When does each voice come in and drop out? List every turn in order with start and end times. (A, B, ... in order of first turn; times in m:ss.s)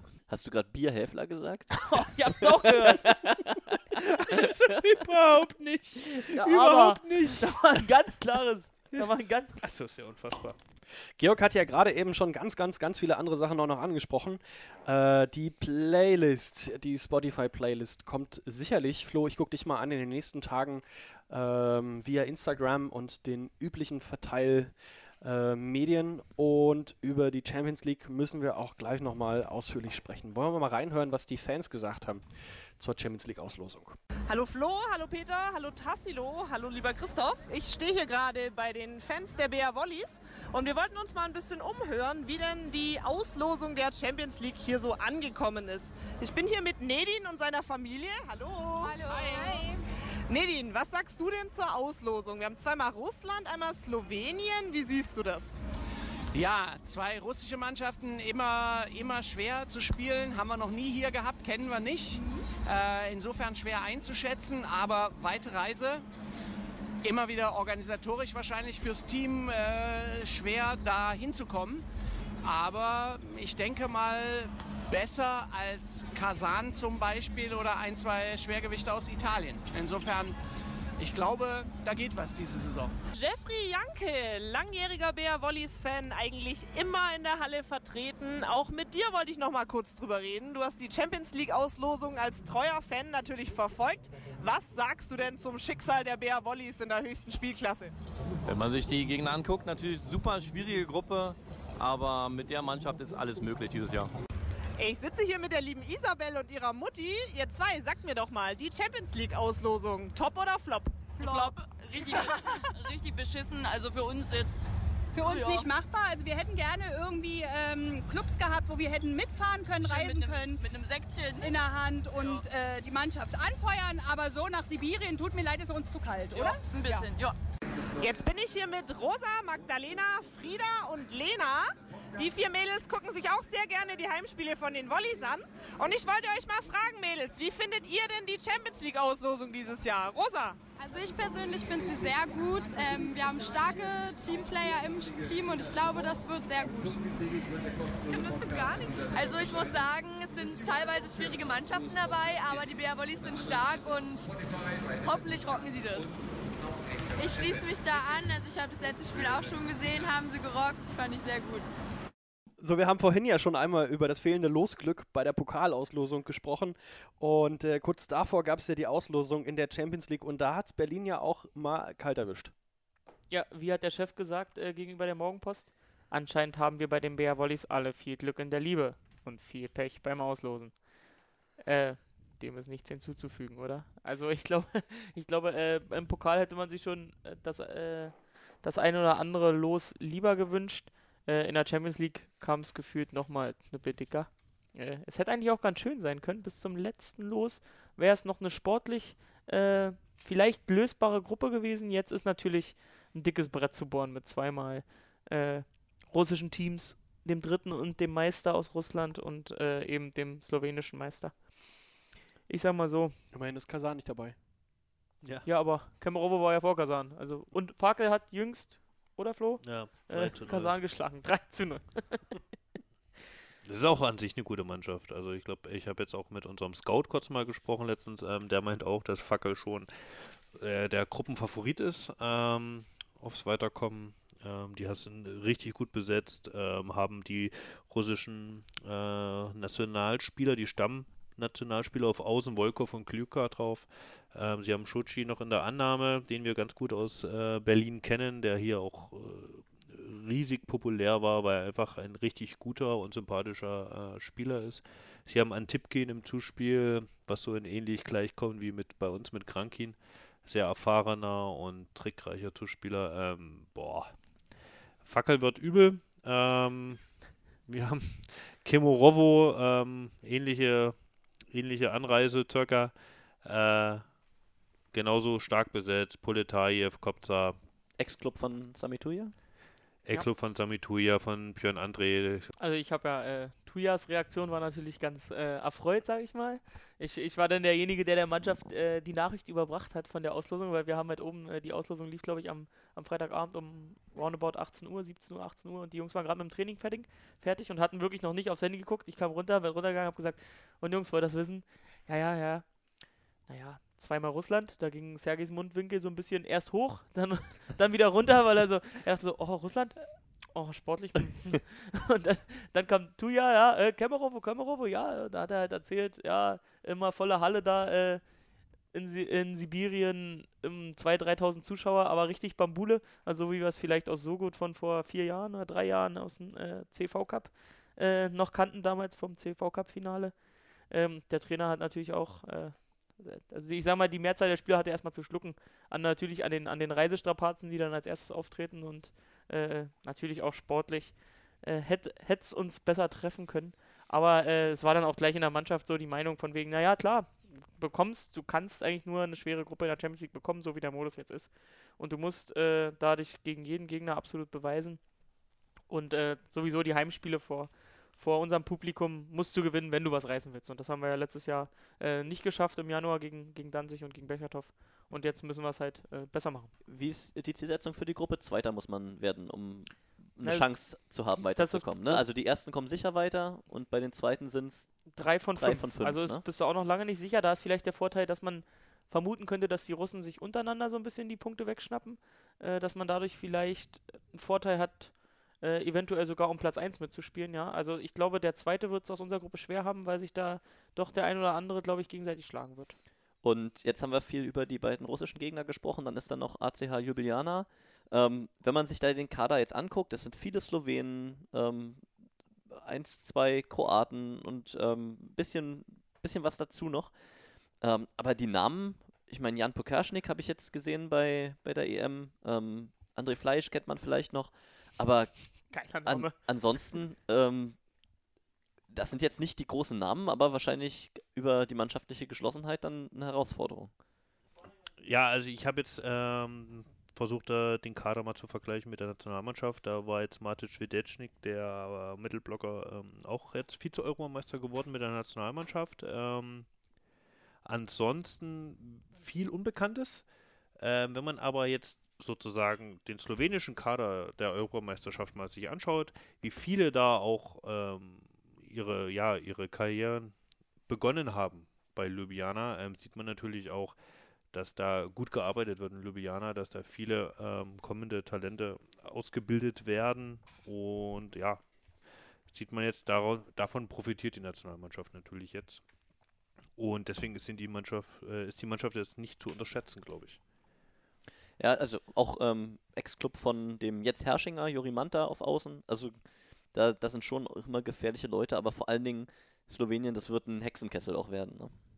0:00.3-0:01.8 A
0:01.8-0:03.2 B
0:02.9-0:03.8 A
0:04.0-0:07.5 C
0:06.0-0:09.6 B
0:08.9-0:10.6 C
0:10.9-0:34.0 D
0:34.3-0:49.6 E
0:49.1-0:49.7 F
0:50.3-0:55.5 E
0:56.3-1:06.0 G
1:07.0-1:11.8 G
1:12.4-1:20.4 G
1:21.0-1:22.9 G
1:23.1-1:37.9 E
1:38.4-1:44.1 H
1:44.8-1:51.1 E
1:51.2-1:54.6 I
1:51.2-1:51.5 J
1:55.1-2:00.6 J
1:55.2-1:55.7 I
1:59.8-2:01.5 I
2:01.3-2:07.0 J
2:02.2-2:02.4 I
2:06.3-2:07.4 I
2:08.0-2:20.6 E
2:20.8-2:27.0 F
2:28.2-2:29.0 E
2:29.7-2:30.1 F
2:31.4-2:34.3 F
2:37.2-2:41.6 F
2:42.6-2:52.5 D
2:53.3-3:00.9 B
3:01.6-3:33.2 B
3:33.3-3:34.3 D
3:35.4-3:42.4 B
3:39.6-3:40.8 C
3:43.6-4:31.0 C
4:31.5-4:34.0 C
4:34.9-4:37.6 C
4:38.0-4:39.3 A
4:40.0-4:42.5 C
4:42.6-5:18.3 B
5:18.9-5:55.1 B
5:55.9-6:06.7 B
6:06.8-6:16.4 A
6:10.4-6:12.2 B
6:15.1-6:33.0 B
6:33.4-6:42.0 A
6:42.7-6:47.1 A
6:47.8-6:57.8 A
6:55.7-6:56.3 B
6:58.9-7:03.9 A
7:05.0-7:16.7 C
7:17.6-7:20.3 C
7:20.8-7:30.4 C
7:30.9-7:34.0 C
7:34.5-7:45.8 C
7:46.8-7:50.4 C
7:51.6-7:56.2 A
7:56.7-8:01.7 A